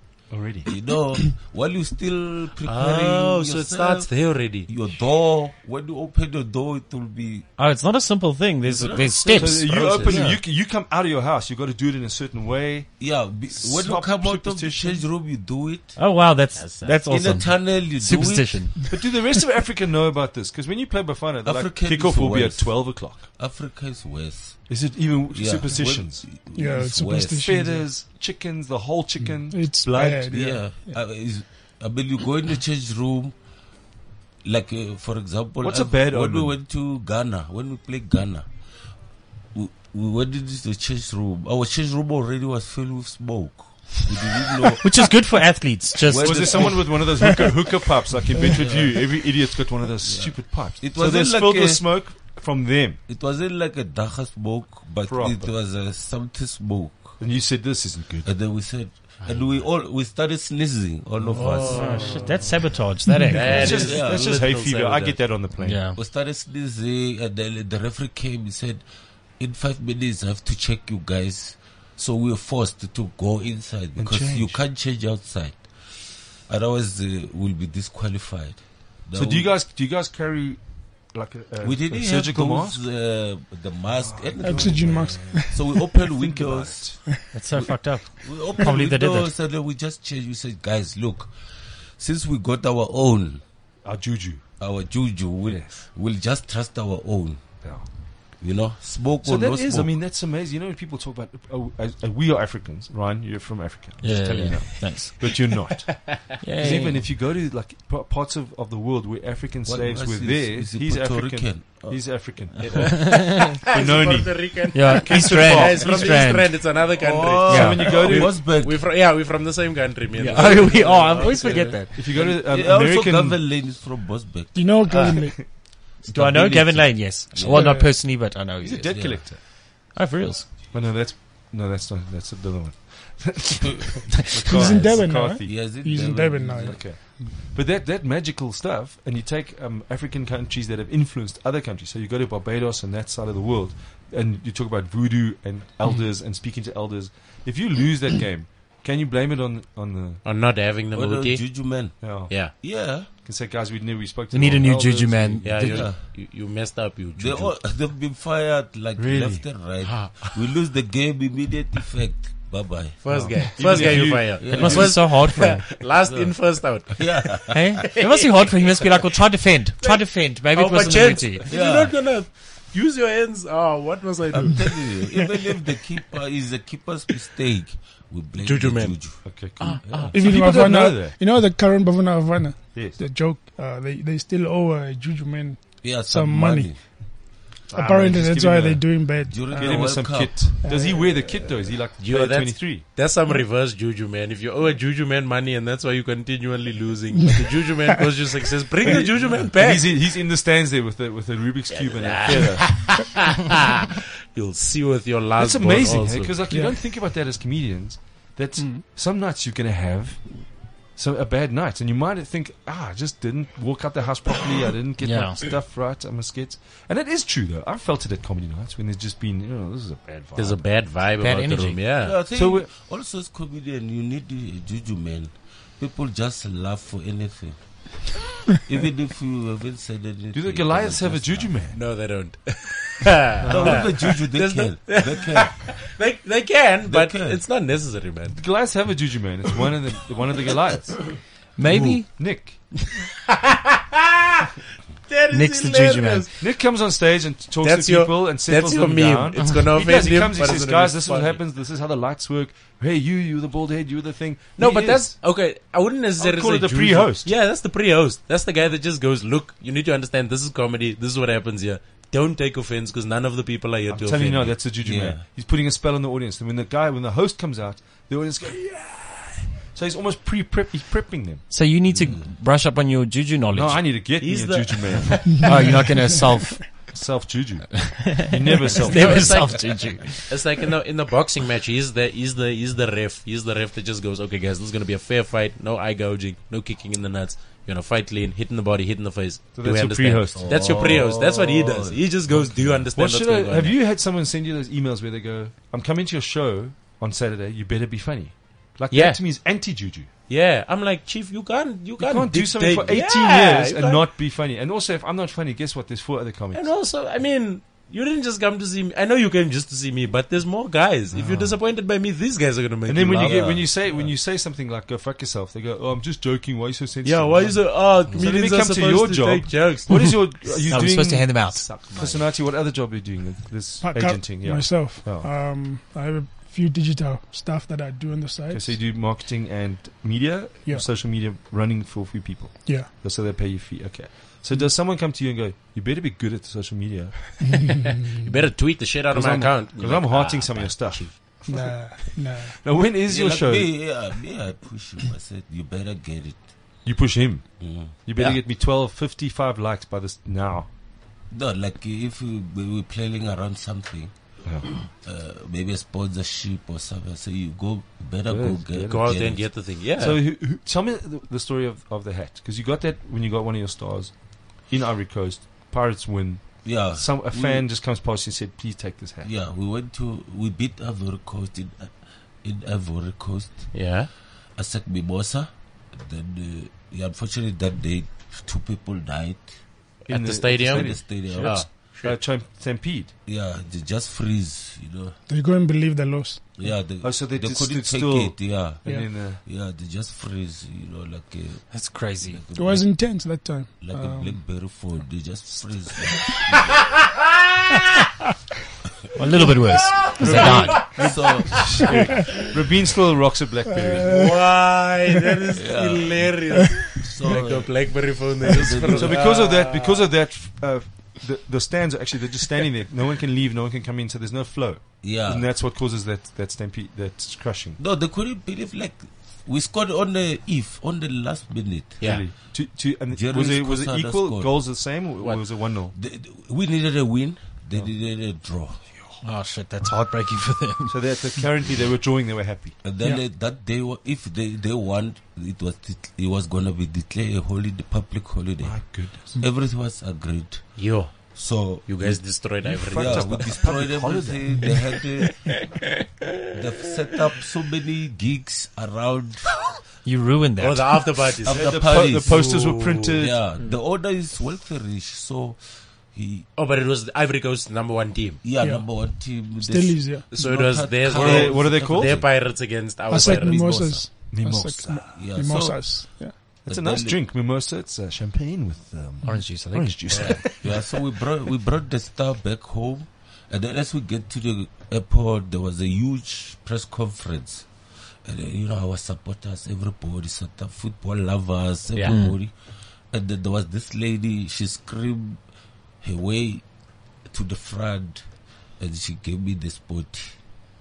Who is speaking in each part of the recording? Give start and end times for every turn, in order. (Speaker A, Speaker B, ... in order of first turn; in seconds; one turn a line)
Speaker A: 0.3-0.8
Speaker B: 0.7-7.5
Speaker C: 2.6-4.7
Speaker D: 7.6-9.8
Speaker B: 8.6-10.4
Speaker C: 9.3-10.4
Speaker A: 9.3-15.0
Speaker B: 13.0-16.0
Speaker D: 16.0-18.9
Speaker C: 16.6-17.3
Speaker B: 17.1-18.7
Speaker A: 18.9-23.3
Speaker B: 21.4-24.7
Speaker A: 24.7-26.4
Speaker B: 25.3-27.6
Speaker E: 26.5-27.9
Speaker A: 27.4-30.6
Speaker E: 29.5-30.9
Speaker B: 30.3-33.4
Speaker B: 34.4-38.5
Speaker A: 35.6-36.6
Speaker B: 39.5-45.1
Speaker D: 44.8-47.0
Speaker B: 46.0-47.1
Speaker A: 46.1-53.0
Speaker B: 48.4-49.2
Speaker B: 50.0-52.0
Speaker B: 53.1-57.2
Speaker A: 55.0-55.5
Speaker A: 57.2-58.3
Speaker B: 58.2-62.1
Speaker C: 59.2-59.6
Speaker C: 61.3-62.5
Speaker D: 61.4-63.8
Speaker A: 61.8-62.3
Speaker C: 63.3-65.3
Speaker A: 63.5-65.8
Speaker B: 63.6-64.4
Speaker D: 65.6-66.0
Speaker B: 65.9-68.8
Speaker B: 69.4-75.7
Speaker A: 74.0-74.6
Speaker B: 76.4-79.5
Speaker A: 79.1-82.8
Speaker B: 81.6-91.3
Speaker A: 84.0-85.6
Speaker E: 84.4-86.0
Speaker A: 86.1-87.0
Speaker D: 87.3-89.3
Speaker B: 92.0-93.4
Speaker A: 93.8-94.5
Speaker B: 94.6-97.6
Speaker A: 95.5-95.8
Speaker B: 98.3-100.0
Speaker A: 99.2-116.2
Speaker D: 104.0-105.5
Speaker D: 106.4-107.1
Speaker B: 109.6-112.9
Speaker C: 112.6-122.3
Speaker D: 112.7-113.6
Speaker D: 114.7-116.5
Speaker B: 116.9-118.8
Speaker D: 117.5-117.8
Speaker A: 117.5-118.3
Speaker D: 120.2-121.9
Speaker A: 121.2-123.4
Speaker B: 122.0-125.0
Speaker E: 124.5-125.4
Speaker C: 124.9-125.2
Speaker B: 126.0-127.9
Speaker D: 126.1-130.5
Speaker E: 127.4-128.0
Speaker A: 128.6-129.4
Speaker B: 128.8-129.2
Speaker A: 130.7-135.7
Speaker E: 134.4-136.9
Speaker B: 134.6-136.8
Speaker A: 136.6-150.2
Speaker C: 150.2-152.5
Speaker B: 150.9-153.1
Speaker A: 152.0-152.3
Speaker A: 153.2-155.6
Speaker D: 154.3-155.9
Speaker C: 155.4-157.7
Speaker B: 155.6-156.0
Speaker B: 157.2-165.2
Speaker A: 159.0-159.6
Speaker C: 159.8-160.4
Speaker C: 163.0-168.9
Speaker A: 163.1-164.8
Speaker D: 164.5-165.7
Speaker B: 166.0-167.8
Speaker D: 167.5-171.4
Speaker C: 169.8-174.9
Speaker B: 171.5-171.9
Speaker B: 174.3-180.1
Speaker C: 178.4-180.1
Speaker A: 179.2-181.2
Speaker E: 180.1-191.4
Speaker A: 182.7-183.0
Speaker B: 185.8-186.8
Speaker A: 187.7-192.8
Speaker B: 189.2-190.6
Speaker C: 192.0-200.0
Speaker A: 198.8-202.9
Speaker C: 201.7-206.4
Speaker A: 205.4-220.6
Speaker E: 206.5-206.8
Speaker E: 208.6-208.8
Speaker D: 215.0-215.4
Speaker C: 220.3-222.2
Speaker D: 221.2-221.8
Speaker B: 222.0-231.6
Speaker A: 222.3-222.7
Speaker A: 230.3-231.8
Speaker C: 231.7-238.4
Speaker A: 233.4-233.9
Speaker B: 233.4-235.7
Speaker B: 236.9-237.4
Speaker A: 238.3-241.2
Speaker D: 241.6-242.3
Speaker C: 241.7-242.0
Speaker A: 241.8-242.7
Speaker C: 245.1-246.4
Speaker D: 245.3-246.3
Speaker A: 246.4-255.2
Speaker C: 247.6-251.4
Speaker C: 254.6-264.7
Speaker A: 256.2-257.3
Speaker A: 263.9-271.4
Speaker B: 264.8-265.2
Speaker D: 271.5-273.9
Speaker B: 271.9-272.3
Speaker A: 273.5-275.3
Speaker C: 274.2-275.4
Speaker E: 275.2-275.8
Speaker D: 275.4-276.9
Speaker A: 276.8-279.4
Speaker D: 278.1-280.4
Speaker C: 278.8-293.8
Speaker A: 289.5-290.7
Speaker B: 290.3-292.9
Speaker A: 292.9-300.1
Speaker C: 298.9-299.4
Speaker C: 300.3-304.1
Speaker A: 302.0-306.6
Speaker C: 306.5-313.6
Speaker A: 311.1-311.6
Speaker A: 312.9-325.3
Speaker B: 313.1-314.1
Speaker C: 317.0-320.6
Speaker D: 320.3-321.7
Speaker C: 321.5-322.3
Speaker E: 323.8-328.8
Speaker A: 328.5-337.4
Speaker E: 332.6-332.9
Speaker E: 337.5-337.9
Speaker C: 338.2-341.4
Speaker A: 339.1-344.0
Speaker E: 341.4-342.6
Speaker B: 343.0-346.4
Speaker A: 346.8-350.7
Speaker B: 347.6-348.3
Speaker B: 351.3-359.5
Speaker A: 354.4-354.7
Speaker A: 358.3-359.1
Speaker C: 358.8-360.2
Speaker A: 360.0-369.3
Speaker B: 366.6-367.7
Speaker B: 369.2-374.0
Speaker C: 373.7-374.1
Speaker B: 374.5-379.6
Speaker C: 380.0-382.2
Speaker A: 380.1-383.1
Speaker B: 380.6-381.7
Speaker B: 383.2-385.2
Speaker E: 385.3-386.8
Speaker B: 386.6-396.7
Speaker A: 387.0-389.4
Speaker E: 388.8-389.1
Speaker D: 391.7-392.4
Speaker E: 392.5-394.6
Speaker D: 399.1-400.9
Speaker C: 399.7-402.4
Speaker A: 400.2-404.2
Speaker B: 400.2-402.2
Speaker E: 401.8-402.4
Speaker E: 403.9-404.3
Speaker C: 404.1-410.1
Speaker B: 405.6-406.4
Speaker B: 406.9-409.3
Speaker A: 408.9-417.8
Speaker B: 415.0-415.5
Speaker B: 417.8-422.3
Speaker C: 422.0-422.3
Speaker A: 422.0-425.9
Speaker B: 423.1-424.6
Speaker B: 425.9-428.8
Speaker D: 429.2-431.4
Speaker A: 430.9-432.9
Speaker B: 432.8-445.6
Speaker A: 438.6-439.4
Speaker C: 440.8-443.7
Speaker A: 442.6-444.8
Speaker B: 446.5-449.5
Speaker D: 450.0-451.1
Speaker C: 450.6-453.2
Speaker B: 451.4-455.6
Speaker A: 451.4-453.4
Speaker B: 456.1-456.5
Speaker C: 456.6-458.4
Speaker B: 458.4-462.3
Speaker E: 458.6-460.3
Speaker C: 460.3-464.0
Speaker A: 461.1-462.2
Speaker E: 463.1-466.6
Speaker B: 463.6-464.0
Speaker A: 464.3-465.3
Speaker B: 465.1-467.2
Speaker A: 466.5-470.8
Speaker D: 469.2-470.4
Speaker C: 470.1-470.4
Speaker B: 470.4-477.7
Speaker B: 478.2-482.5
Speaker D: 482.0-482.4
Speaker B: 483.1-485.4
Speaker B: 486.0-486.6
Speaker B: 487.2-488.3
Speaker B: 488.8-490.4